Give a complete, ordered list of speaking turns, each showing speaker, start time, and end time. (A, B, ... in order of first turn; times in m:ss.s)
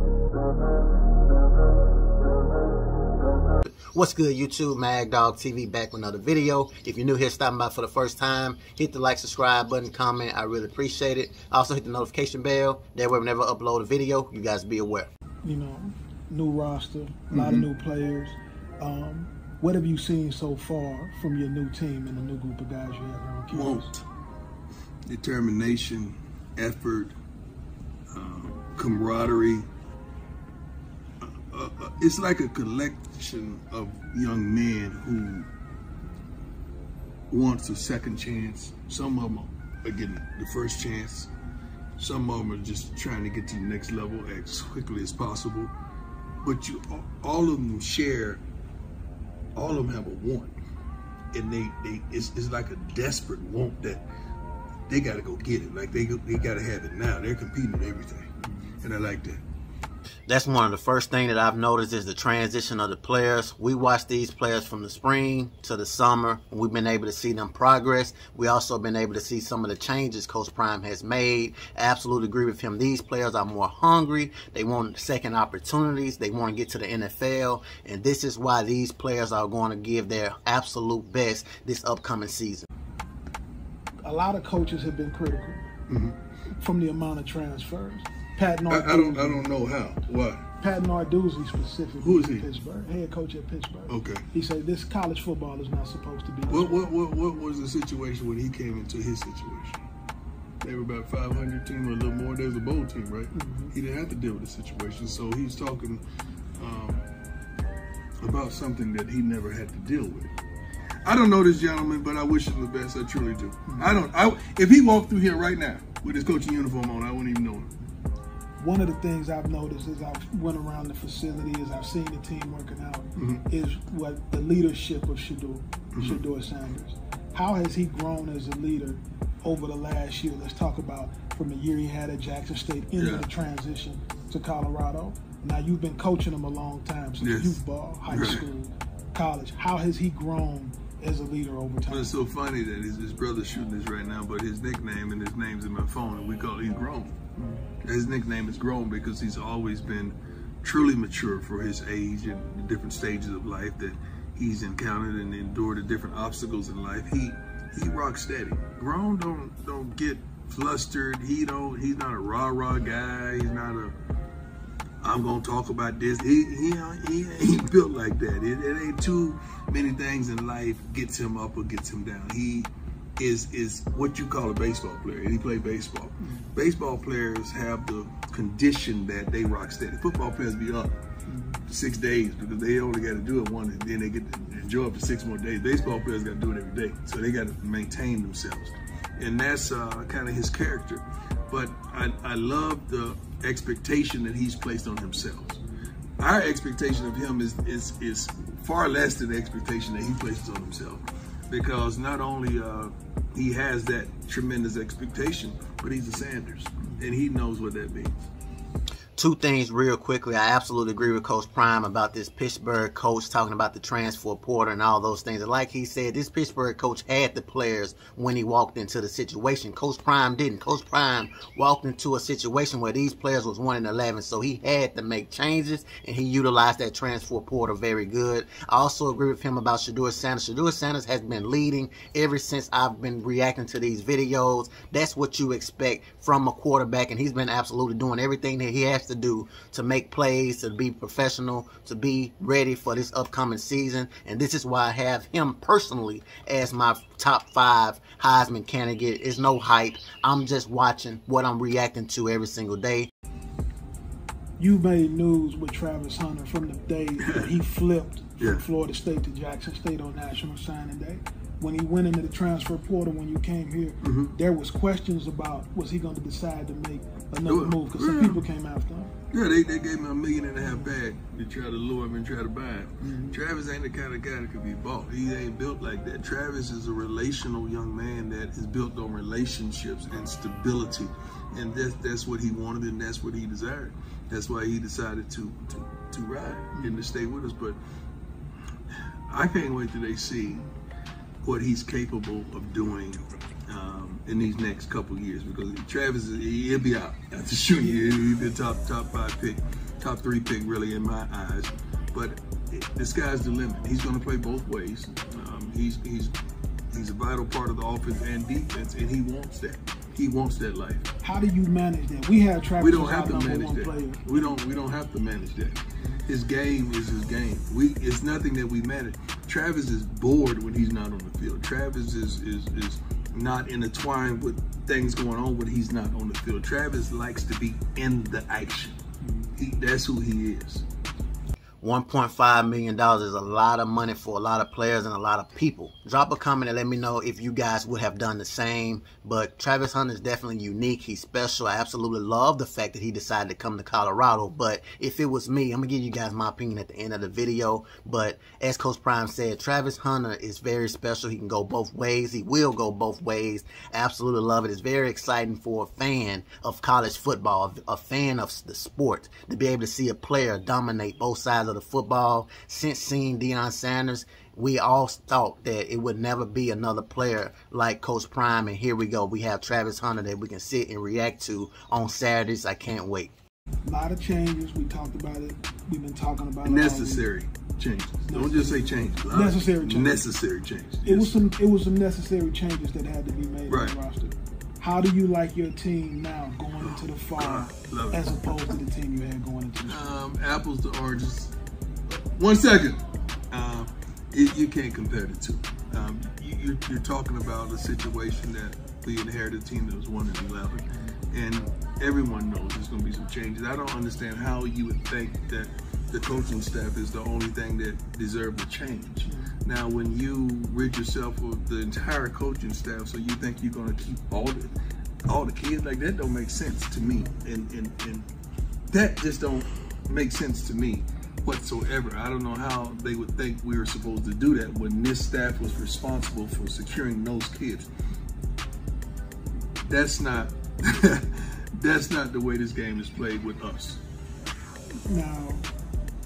0:03.6-0:15.1 A
0:15.4-0:23.9 B
0:17.3-0:17.6 C
0:23.5-0:24.0 C
0:25.1-0:27.1 C
0:28.1-0:29.7 C
0:31.2-0:35.5 C
0:37.3-0:41.3 C
0:42.0-0:45.7 C
0:46.4-0:48.4 C
0:49.5-0:50.6 C
0:51.3-0:54.0 C
0:54.9-0:59.4 C
1:00.3-1:22.7 A
1:24.0-1:25.7 B
1:25.9-1:26.2 C
1:26.6-1:29.5 B
1:28.7-1:30.4 C
1:30.6-1:36.8 B
1:32.0-1:32.4 C
1:33.9-1:34.3 C
1:36.5-1:39.8 C
1:40.6-1:46.0 C
1:43.3-1:43.7 B
1:46.6-1:47.0 C
1:48.2-1:50.3 C
1:51.0-1:57.8 C
1:58.6-2:22.1 B
2:03.2-2:03.4 C
2:05.9-2:06.2 C
2:12.9-2:13.3 C
2:17.2-2:18.4 C
2:21.9-2:44.0 C
2:45.0-3:01.0 C
2:56.2-2:56.5 B
3:01.3-3:01.6 B
3:01.7-3:15.6 C
3:16.2-3:28.2 C
3:29.2-4:13.1 A
4:14.6-4:29.1 B
4:17.2-4:17.5 C
4:18.4-4:18.6 C
4:24.0-4:24.4 C
4:27.4-4:28.4 C
4:29.3-4:47.8 C
4:30.6-4:30.9 B
4:33.0-4:33.4 B
4:46.8-4:47.1 B
4:49.3-4:50.7 C
4:51.4-5:06.3 C
5:06.9-5:11.1 C
5:11.2-5:14.6 B
5:12.8-5:30.8 C
5:31.8-6:13.3 A
6:13.8-6:17.3 B
6:16.6-6:21.4 C
6:18.3-6:20.3 B
6:21.0-6:30.1 B
6:23.7-6:24.0 C
6:26.8-6:28.5 C
6:29.8-6:31.5 C
6:32.1-6:54.7 C
6:40.9-6:41.2 B
6:49.2-6:49.5 B
6:55.2-6:58.3 C
6:58.9-7:07.9 C
7:09.8-7:14.0 C
7:15.1-7:15.6 B